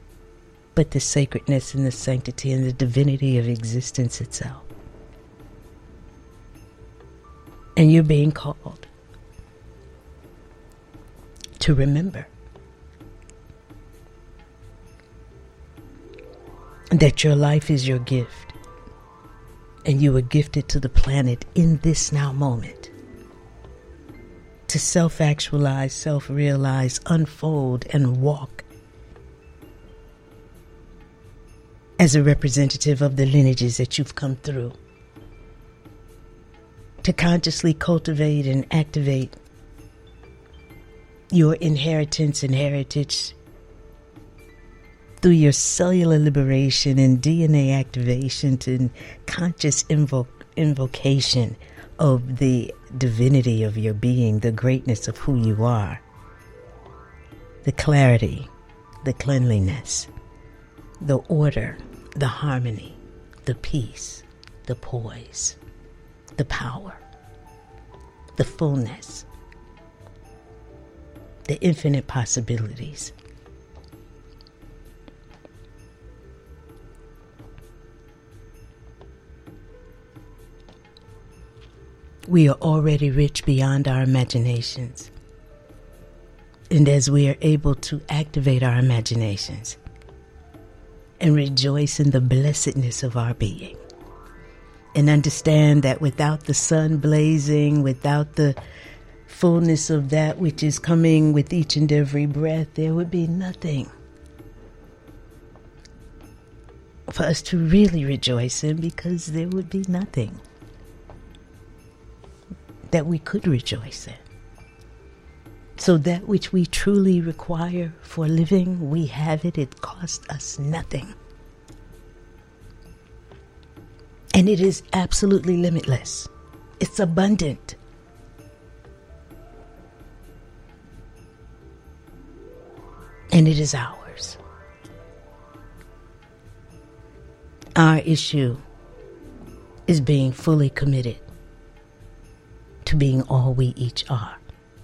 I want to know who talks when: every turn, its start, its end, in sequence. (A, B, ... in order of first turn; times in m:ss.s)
0:00.7-0:04.7 A
0:07.8-0:08.9 A
0:11.6-0:12.3 A
0:16.9-0:18.5 A
0:19.8-0:22.9 A
0:24.7-0:28.6 A
0:32.0-0:34.8 A
0:37.0-0:39.3 A
0:41.3-0:43.4 A
0:45.2-0:56.0 A
0:57.6-0:58.5 A
0:59.0-1:00.1 A
1:01.0-1:05.6 A
1:06.4-1:07.0 A
1:08.4-1:09.3 A
1:11.4-1:13.1 A
1:22.3-1:25.1 A
1:26.7-1:29.8 A
1:31.2-1:33.8 A
1:34.9-1:38.6 A
1:39.2-1:43.9 A
1:47.1-1:50.4 A
1:52.9-1:54.2 A
1:55.8-2:01.1 A
2:04.3-2:07.8 A
2:13.3-2:14.4 A
2:17.8-2:18.6 A
2:19.9-2:21.3 A
2:22.8-2:24.4 A